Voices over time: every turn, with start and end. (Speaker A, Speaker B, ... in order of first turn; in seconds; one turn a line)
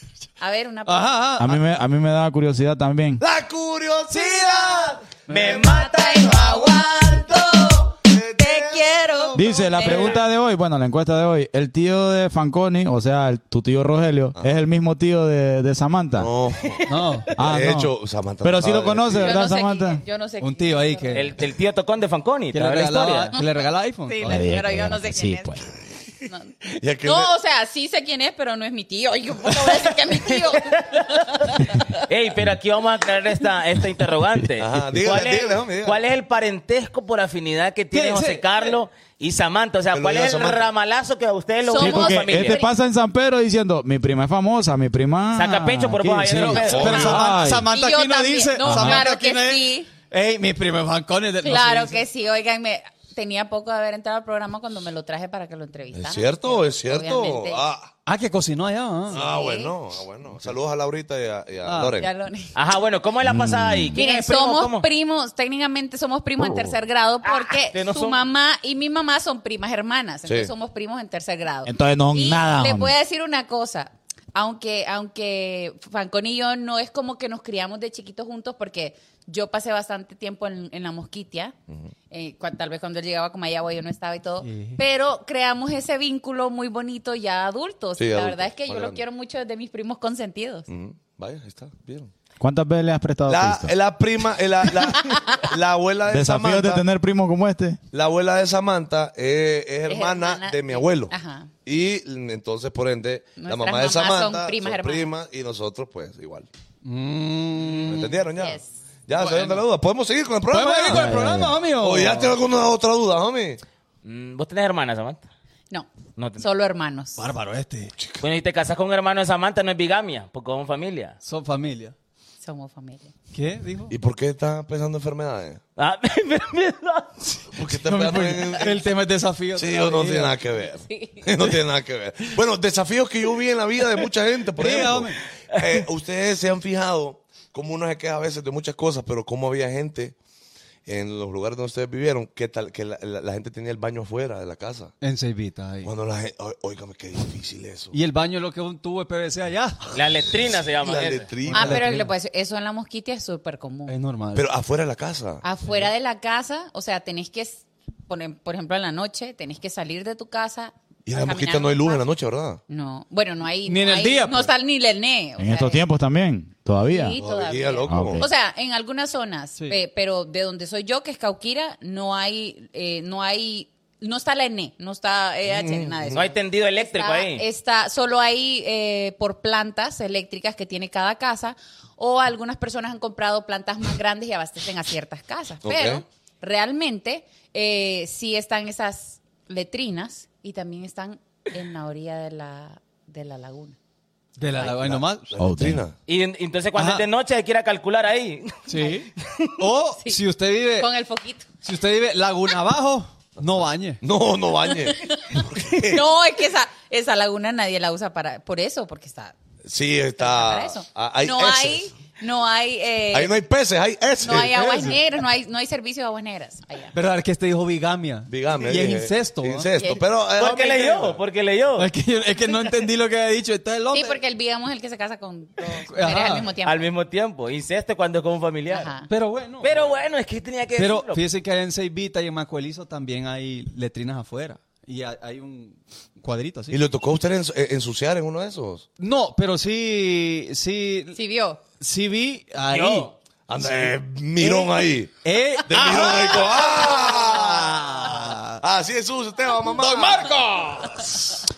Speaker A: 0.4-1.4
Speaker B: 0.8-1.5
Speaker C: 1.4-3.2
Speaker D: 3.2-5.5
Speaker B: 4.1-5.6
Speaker E: 5.3-6.8
Speaker A: 5.3-10.2
Speaker D: 6.2-10.2
Speaker C: 9.3-16.3
Speaker D: 16.1-19.4
Speaker B: 16.9-17.3
Speaker C: 17.4-20.0
Speaker A: 19.1-21.3
Speaker B: 20.4-21.3
Speaker E: 21.1-23.4
Speaker B: 22.5-24.5
Speaker A: 24.1-25.7
Speaker C: 24.2-25.7
Speaker A: 26.3-32.0
Speaker D: 26.7-27.3
Speaker E: 30.2-42.6
Speaker D: 34.6-36.0
Speaker B: 37.9-38.8
Speaker D: 39.9-40.6
Speaker A: 41.6-42.7
Speaker C: 41.7-47.7
Speaker E: 45.3-47.1
Speaker B: 46.4-52.0
Speaker D: 46.4-47.3
Speaker A: 46.9-49.9
Speaker C: 48.6-49.0
Speaker A: 51.4-57.6
Speaker D: 55.9-57.9
Speaker B: 58.0-59.2
Speaker D: 59.1-62.1
Speaker A: 59.1-59.7
Speaker B: 61.6-62.0
Speaker A: 61.9-62.5
Speaker E: 62.5-64.8
Speaker C: 63.2-64.0
Speaker A: 63.9-81.5
Speaker E: 67.2-68.2
Speaker C: 71.6-72.9
Speaker A: 82.1-90.7
Speaker B: 84.4-84.8
Speaker D: 88.0-89.0
Speaker D: 90.7-92.1
Speaker C: 92.4-93.7
Speaker D: 93.3-96.8
Speaker C: 96.1-97.8
Speaker D: 97.9-101.1
Speaker A: 99.9-101.5
Speaker D: 101.6-106.5
Speaker A: 103.4-105.1
Speaker B: 106.8-108.1
Speaker A: 107.9-108.7
Speaker D: 107.9-111.2
Speaker B: 109.1-109.6
Speaker B: 110.5-112.3
Speaker C: 110.9-111.6
Speaker D: 111.8-113.6
Speaker E: 114.0-115.2
Speaker A: 115.7-117.2
Speaker E: 116.2-116.4
Speaker B: 117.2-117.9
Speaker E: 118.2-121.2
Speaker B: 121.2-121.9
Speaker A: 122.4-123.1
Speaker B: 123.3-123.9
Speaker D: 123.9-125.6
Speaker E: 125.8-127.3
Speaker D: 127.5-128.8
Speaker B: 127.6-130.4
Speaker D: 129.5-140.2
Speaker A: 130.8-131.4
Speaker B: 134.6-135.2
Speaker D: 140.8-144.9
Speaker B: 145.0-145.9
Speaker D: 145.8-147.9
Speaker B: 147.9-149.8
Speaker E: 149.9-151.3
Speaker D: 150.8-151.9
Speaker B: 151.4-152.1
Speaker A: 151.5-153.9
Speaker B: 153.9-154.5
Speaker D: 154.3-155.4
Speaker A: 155.4-162.1
Speaker D: 161.1-162.6
Speaker A: 162.7-165.8
Speaker B: 163.7-164.5
Speaker C: 165.4-167.2
Speaker A: 166.8-193.8
Speaker D: 167.2-168.2
Speaker C: 167.9-168.3
Speaker D: 175.4-176.2
Speaker E: 176.1-177.4
Speaker D: 185.6-186.0
Speaker B: 194.4-195.3
Speaker D: 194.7-195.9
Speaker C: 195.4-195.8
Speaker E: 196.1-199.5
Speaker B: 196.7-197.0
Speaker B: 198.7-200.9
Speaker A: 200.8-201.5
Speaker B: 201.6-204.0
Speaker D: 204.0-206.0
Speaker A: 204.8-209.3
Speaker D: 209.6-211.9
Speaker A: 210.2-213.4
Speaker D: 213.1-214.9
Speaker A: 214.2-216.9
Speaker B: 214.7-214.9
Speaker B: 216.9-219.7
Speaker D: 218.3-221.2
Speaker A: 219.8-220.1
Speaker E: 220.4-221.9
Speaker B: 221.8-224.2
Speaker A: 223.9-226.9
Speaker B: 225.8-226.5
Speaker E: 226.6-228.9
Speaker A: 228.7-229.1
Speaker B: 229.1-229.8
Speaker E: 229.6-231.2
Speaker B: 230.8-236.8
Speaker D: 236.7-238.8
Speaker B: 239.0-241.2
Speaker A: 241.1-241.6
Speaker B: 241.8-244.7
Speaker E: 242.7-243.1
Speaker D: 243.5-245.1
Speaker B: 245.2-248.6
Speaker D: 245.7-250.3
Speaker B: 249.8-251.4